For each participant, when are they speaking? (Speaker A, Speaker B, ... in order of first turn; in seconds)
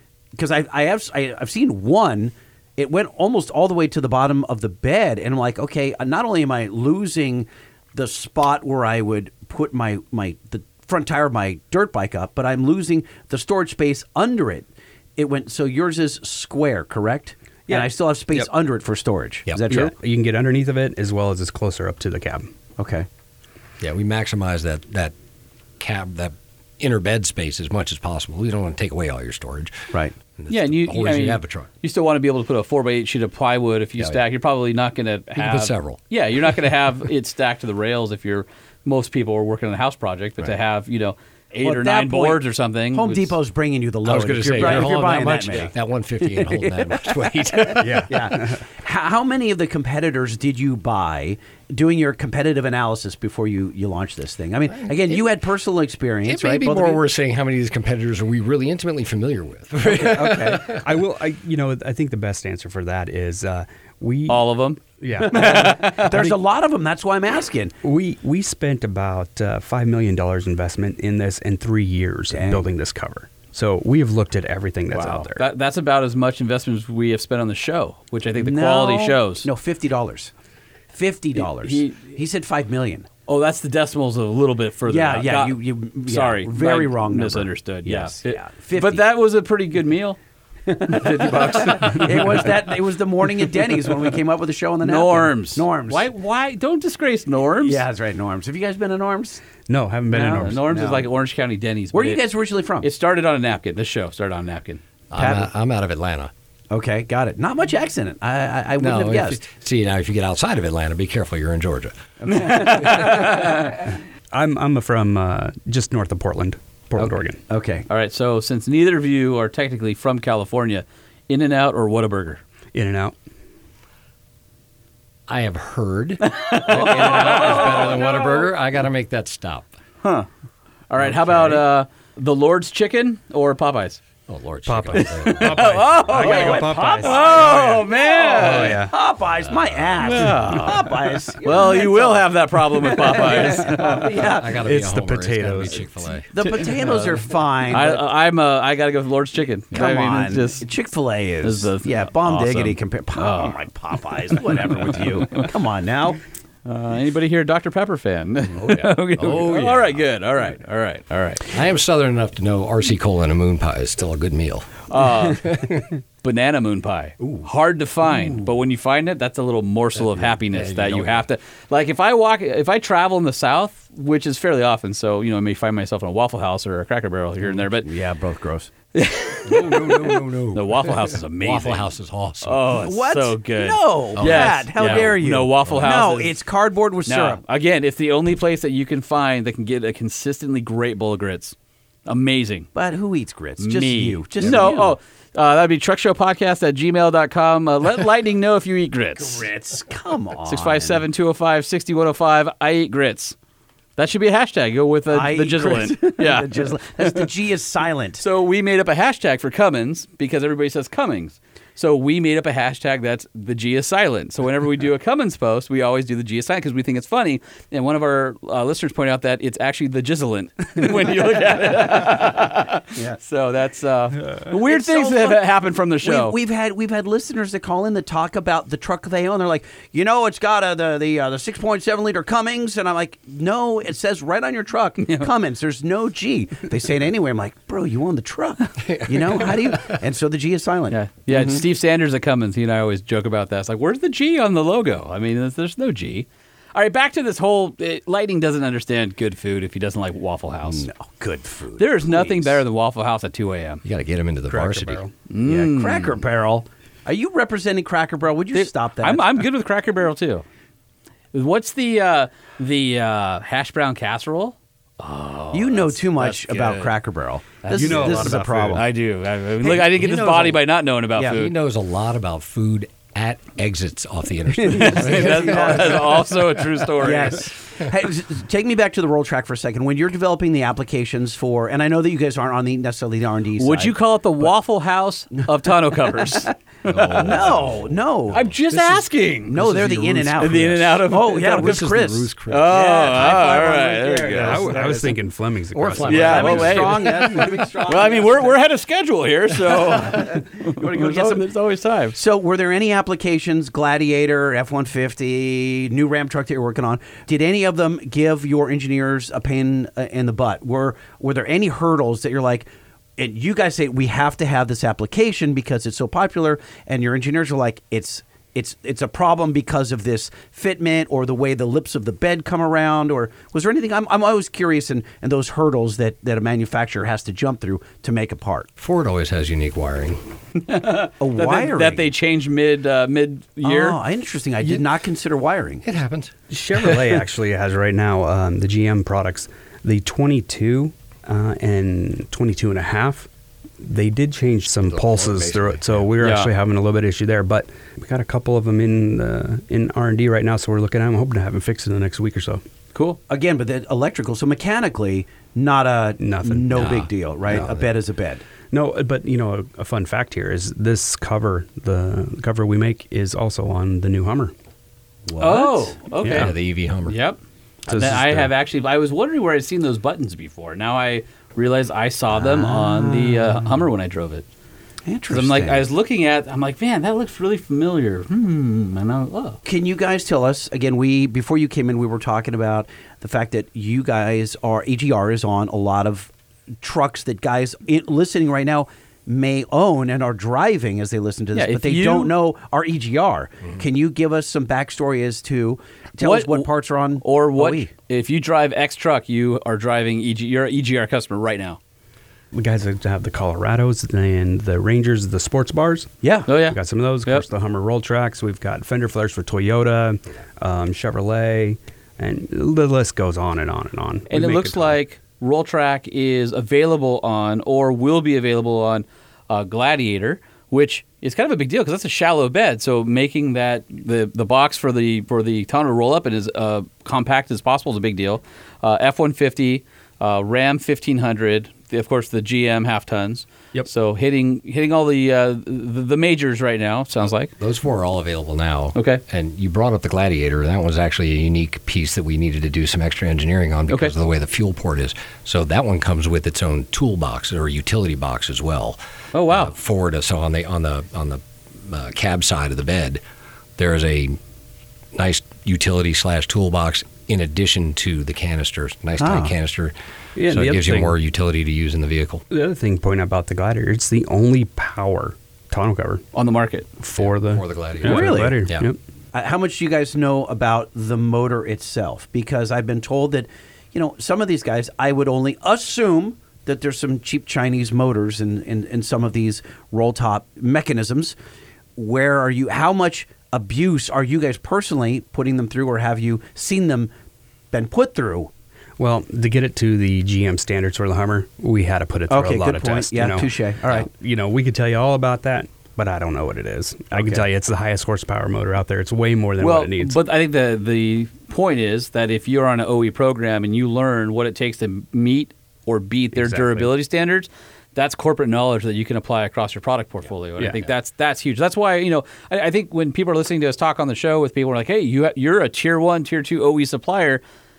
Speaker A: 0.3-19.9, 22.8-23.1, 41.6-57.0, 59.8-60.7, 65.2-67.7, 72.3-72.6, 78.3-80.3, 80.9-83.1, 84.9-89.0, 90.7-96.1, 97.6-99.4, 100.4-101.1, 101.9-102.9, 105.2-105.5, 106.7-109.4, 112.2-113.3, 117.0-117.8, 136.1-144.6, 146.3-148.0, 149.7-156.2, 177.8-178.7, 182.8-187.4, 192.7-195.0, 199.2-201.0, 205.1-208.2, 224.5-225.4, 226.0-241.6, 250.6-252.6, 255.4-259.4, 265.5-268.9, 269.6-270.6, 274.9-276.3, 277.0-284.5, 287.2-288.4, 289.5-295.1, 296.1-298.5, 300.1-301.5, 302.1-328.7, 331.2-332.1, 333.6-335.8, 353.3-358.4, 365.3-365.9, 372.3-373.8, 375.1-375.9, 379.6-386.3, 386.8-397.9, 406.2-406.5, 459.2-459.5, 468.0-468.6, 469.3-481.4, 482.0-487.1, 487.7-488.5, 492.3-494.1, 497.1-497.4
Speaker B: 17.7-18.5, 19.7-22.5, 47.8-48.6, 60.7-64.5, 65.0-66.3, 67.8-75.4, 99.7-100.7, 114.3-117.4, 122.7-123.1, 134.7-138.9, 140.2-140.7, 143.3-145.9, 254.5-255.1, 267.7-268.8, 294.4-296.8, 336.5-343.3, 343.8-352.6, 356.2-357.0, 358.7-364.5, 366.2-366.5, 367.9-368.5, 402.5-415.0, 460.4-461.1, 462.5-466.2, 467.0-469.0, 489.0-500.2, 506.3-506.9, 510.6-510.9
Speaker C: 23.8-25.1, 25.8-29.7, 30.4-31.7, 35.4-36.0, 44.0-48.2, 54.7-55.2, 56.2-60.9, 105.1-106.3, 108.8-111.9, 125.3-129.7, 134.3-135.7, 139.5-140.1, 144.2-146.3, 158.5-160.0, 161.5-165.8, 169.9-171.3, 179.4-182.8, 184.2-185.9, 238.8-240.0, 253.8-255.0, 270.0-270.3, 271.3-276.3, 286.8-293.5, 295.7-297.5, 328.8-330.2, 335.8-336.3, 344.8-346.1, 356.7-357.8, 366.2-367.2, 437.6-453.2, 453.8-454.4, 455.1-459.9, 460.4-462.4, 467.1-468.9
Speaker D: 30.5-43.4, 64.3-64.8, 65.3-66.1, 74.9-79.5, 81.3-82.2, 83.3-90.2, 90.8-92.5, 94.8-97.8, 100.1-102.2, 102.8-104.8, 112.3-113.8, 117.9-122.4, 126.2-128.4, 130.9-134.0, 134.9-138.8, 140.0-144.1, 146.5-150.6, 151.4-153.6, 154.3-155.5, 156.7-161.5, 164.9-177.9, 178.9-181.9, 182.4-186.3, 187.1-191.5, 192.1-192.7, 193.6-199.5, 200.4-203.3, 204.0-207.3, 208.2-226.3, 235.0-235.3, 240.9-250.9, 251.8-253.8, 255.3-256.1, 258.5-260.4, 261.3-266.9, 267.7-271.5, 274.6-277.5, 283.6-287.4, 288.3-291.8, 292.5-294.7, 296.0-302.1, 330.6-334.0, 346.2-346.5, 365.4-366.5, 367.1-374.4, 375.3-379.6, 391.5-392.3, 396.2-396.7, 397.2-401.8, 406.5-407.4, 414.3-437.5, 438.9-439.2, 449.3-449.7, 466.3-466.9, 499.6-517.4